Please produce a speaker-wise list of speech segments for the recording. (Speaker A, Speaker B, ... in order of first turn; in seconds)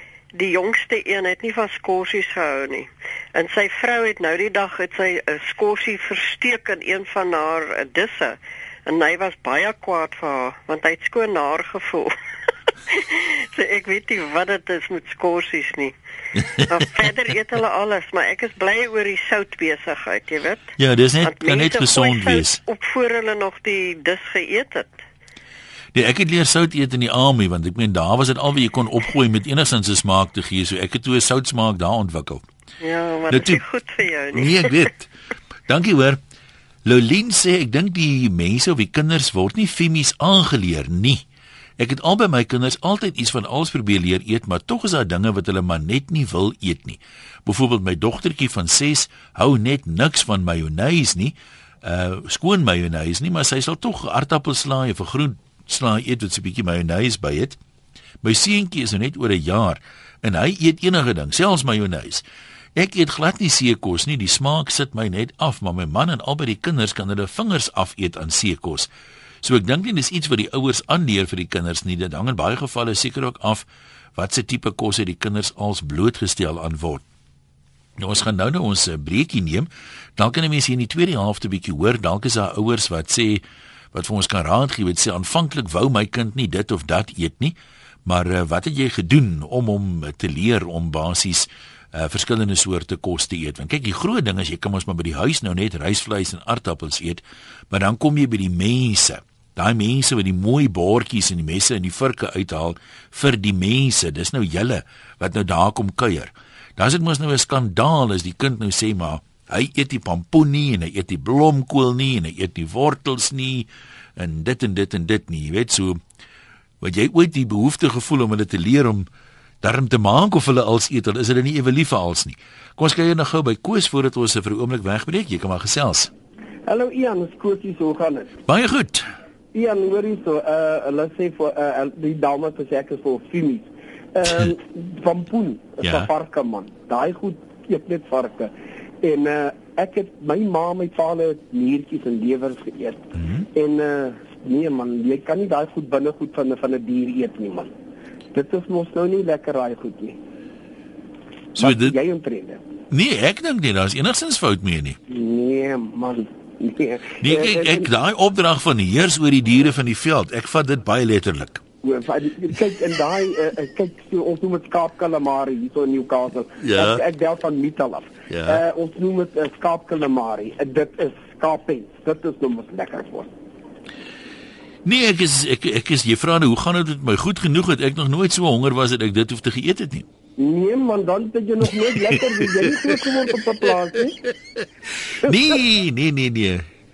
Speaker A: 0.3-12.1, 12.9-15.9, 16.6-25.0, 32.8-34.7
Speaker B: 20.8-22.6, 25.9-32.5, 33.3-33.6, 34.3-35.1, 35.7-36.2, 36.9-41.2, 41.8-57.6, 58.2-62.2, 62.8-68.9, 69.4-77.0, 78.0-116.0, 116.8-119.1, 119.6-126.1, 128.5-129.1, 135.8-136.1, 143.2-143.5, 151.6-152.0, 152.9-155.0, 157.2-161.6, 166.6-167.0, 168.3-168.6, 174.9-180.1, 182.1-182.9, 185.2-186.7
Speaker C: 126.7-128.3, 129.5-138.5, 139.0-147.7, 148.3-150.2, 151.6-152.7, 155.1-157.9, 161.8-173.3, 180.4-184.2